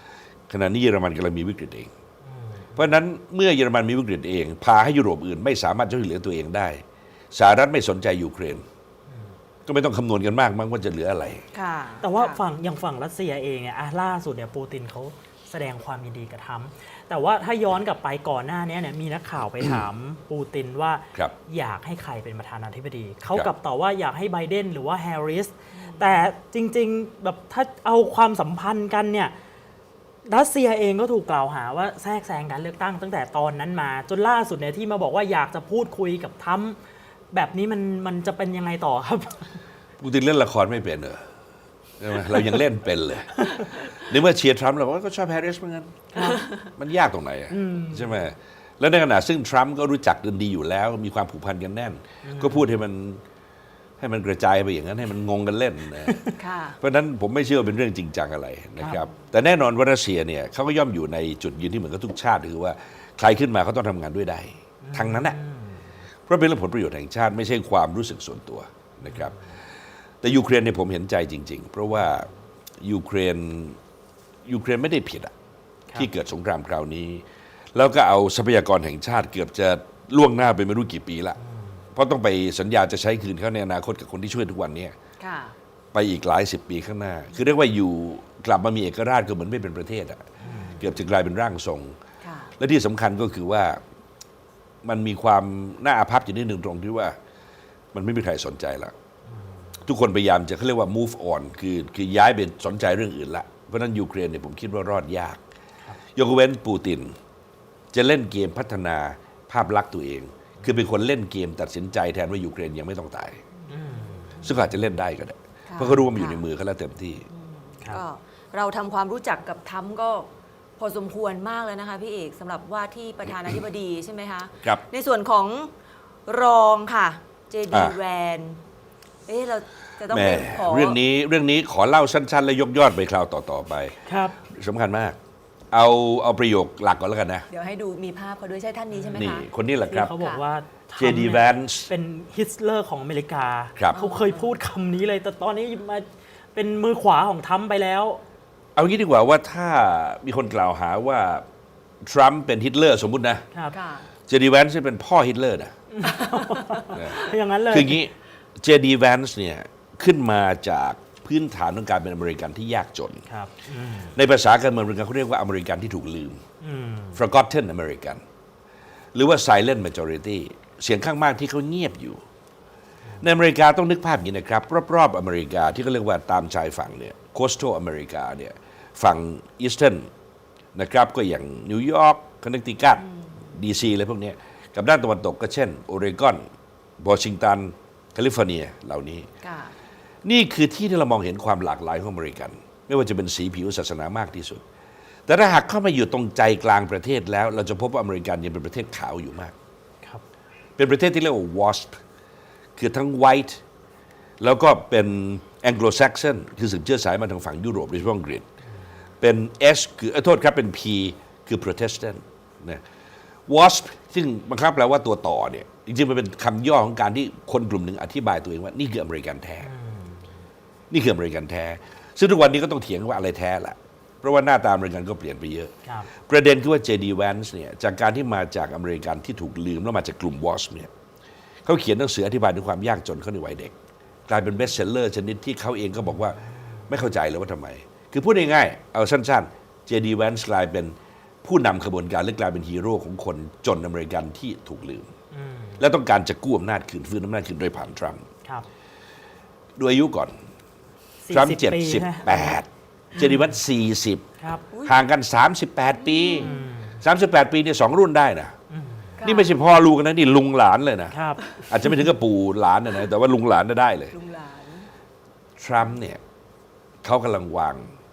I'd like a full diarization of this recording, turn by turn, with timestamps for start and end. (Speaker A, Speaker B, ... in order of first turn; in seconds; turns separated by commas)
Speaker A: 0.5-1.9, Speaker B: 2.2-3.0, Speaker A: 2.8-8.7, Speaker A: 9.7-11.4, Speaker C: 11.5-12.4, Speaker B: 12.0-29.3, Speaker C: 25.8-26.3, Speaker B: 30.2-36.8, Speaker B: 37.3-39.6, Speaker A: 40.0-41.3, Speaker A: 42.0-46.1, Speaker B: 43.4-43.7, Speaker B: 46.1-46.4, Speaker C: 46.2-46.7, Speaker A: 46.8-53.2, Speaker B: 47.5-48.1, Speaker B: 52.2-52.7, Speaker A: 54.0-56.2, Speaker B: 56.1-56.3, Speaker C: 56.4-56.8, Speaker A: 56.8-65.4, Speaker C: 58.8-59.2, Speaker B: 64.8-65.8, Speaker A: 66.3-69.3, Speaker A: 70.2-72.3, Speaker A: 72.8-73.8, Speaker A: 74.4-75.3, Speaker A: 75.9-81.4, Speaker B: 81.4-81.7, Speaker A: 81.9-84.9, Speaker C: 85.2-85.5, Speaker A: 85.9-92.0, Speaker B: 90.4-90.8, Speaker C: 90.5-90.8, Speaker C: 92.2-92.5, Speaker A: 92.6-93.8, Speaker A: 94.8-97.2, Speaker A: 97.9-98.9, Speaker A: 99.8-105.4, Speaker A: 106.1-107.2, Speaker A: 107.9-113.4, Speaker B: 113.7-114.5, Speaker A: 114.4-117.3, Speaker C: 115.7-116.4, Speaker C: 117.3-125.7, Speaker C: 126.3-128.6, Speaker A: 127.7-128.0, Speaker C: 129.3-131.0, Speaker A: 130.1-135.2, Speaker B: 134.1-134.4, Speaker A: 135.7-137.5, Speaker C: 137.5-139.4, Speaker B: 138.9-139.2, Speaker A: 139.1-140.1, Speaker B: 139.9-148.2, Speaker C: 140.1-140.4, Speaker A: 141.0-141.9, Speaker C: 143.9-144.5, Speaker A: 148.8-151.4, Speaker A: 152.0-153.4, Speaker C: 153.7-154.1, Speaker A: 154.3-155.7, Speaker B: 155.9-158.0, Speaker C: 156.1-157.3, Speaker A: 156.9-163.2, Speaker B: 163.3-164.1, Speaker A: 164.1-166.4, Speaker B: 166.6-167.2, Speaker A: 167.2-168.2, Speaker A: 169.1-172.2, Speaker A: 173.2-180.1, Speaker A: 180.7-186.4, Speaker C: 183.0-183.5, Speaker A: 187.0-189.3, Speaker C: 189.4-189.8, Speaker A: 190.2-194.6, Speaker A: 195.3-199.5, Speaker A: 200.8-202.0, Speaker A: 202.8-203.6, Speaker A: 204.4-208.4, Speaker A: 209.2-212.8, Speaker A: 213.5-219.7, Speaker B: 219.6-220.2, Speaker A: 220.9-230.9, Speaker A: 231.6-233.7, Speaker A: 234.3-245.1, Speaker B: 245.3-245.8, Speaker A: 245.8-248.2, Speaker A: 249.8-250.4, Speaker B: 251.2-252.6, Speaker A: 251.3-254.2, Speaker B: 254.4-254.6, Speaker C: 254.7-255.0, Speaker A: 254.8-258.5, Speaker C: 255.9-256.6, Speaker B: 256.4-257.0, Speaker B: 258.7-259.1, Speaker C: 259.2-259.6, Speaker A: 259.2-264.1, Speaker B: 261.1-261.5, Speaker C: 264.1-264.9, Speaker A: 265.6-266.2, Speaker A: 267.0-267.9